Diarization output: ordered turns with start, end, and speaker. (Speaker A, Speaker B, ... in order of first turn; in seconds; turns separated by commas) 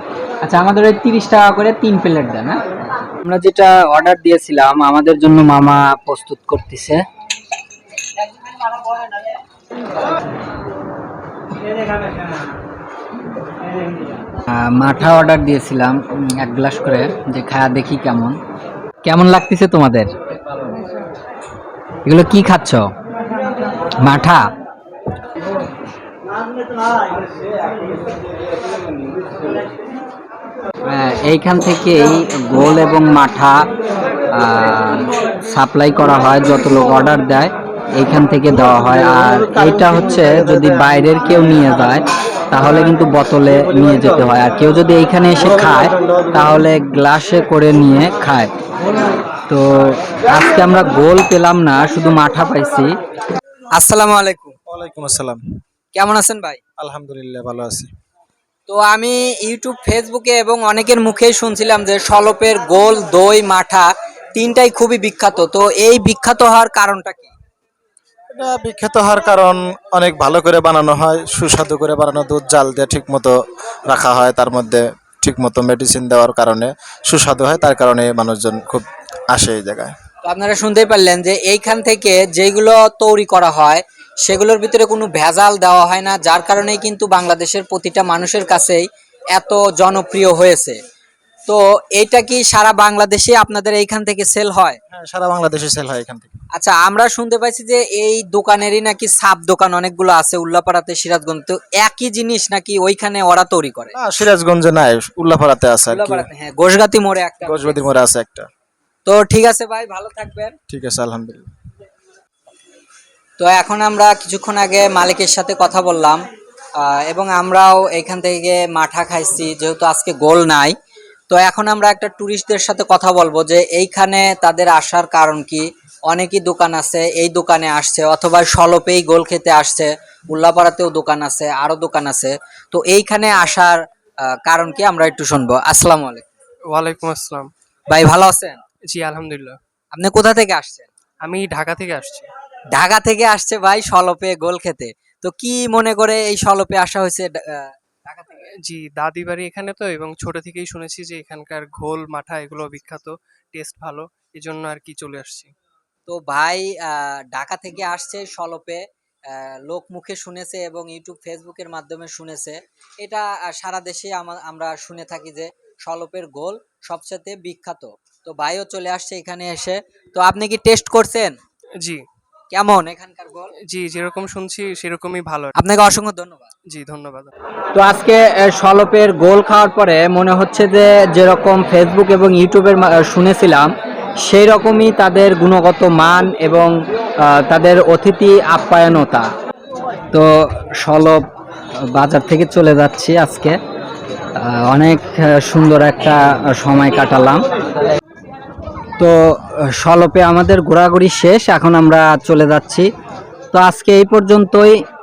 Speaker A: 0.4-7.0, Speaker A: 14.5-18.4, Speaker A: 19.0-20.1, Speaker A: 22.0-22.9, Speaker A: 24.0-24.5, Speaker A: 30.9-33.7, Speaker A: 34.3-48.5, Speaker A: 49.5-52.9, Speaker A: 53.7-54.5, Speaker B: 54.7-55.4, Speaker A: 55.9-56.6, Speaker B: 56.8-57.9, Speaker A: 58.7-67.3, Speaker B: 68.3-73.4, Speaker B: 73.9-80.0, Speaker A: 80.2-90.8, Speaker A: 91.5-94.8, Speaker B: 94.9-96.3, Speaker A: 96.5-103.9, Speaker B: 103.9-106.3, Speaker A: 105.9-108.0, Speaker B: 107.4-108.5, Speaker A: 109.0-110.5, Speaker B: 110.7-111.5, Speaker A: 113.4-116.2, Speaker A: 116.8-120.7, Speaker A: 121.3-136.2, Speaker C: 136.7-137.5, Speaker A: 137.9-138.6, Speaker C: 138.9-139.6, Speaker A: 139.9-140.9, Speaker C: 141.2-142.3, Speaker A: 142.7-148.5, Speaker C: 148.6-155.5, Speaker A: 156.1-171.4, Speaker C: 171.8-172.0, Speaker A: 172.5-173.5, Speaker C: 173.7-175.5, Speaker A: 175.6-176.5, Speaker C: 176.7-177.3, Speaker A: 177.7-189.3, Speaker A: 190.1-191.2, Speaker A: 191.9-193.6, Speaker A: 194.4-197.4, Speaker A: 199.0-202.9, Speaker A: 203.5-204.8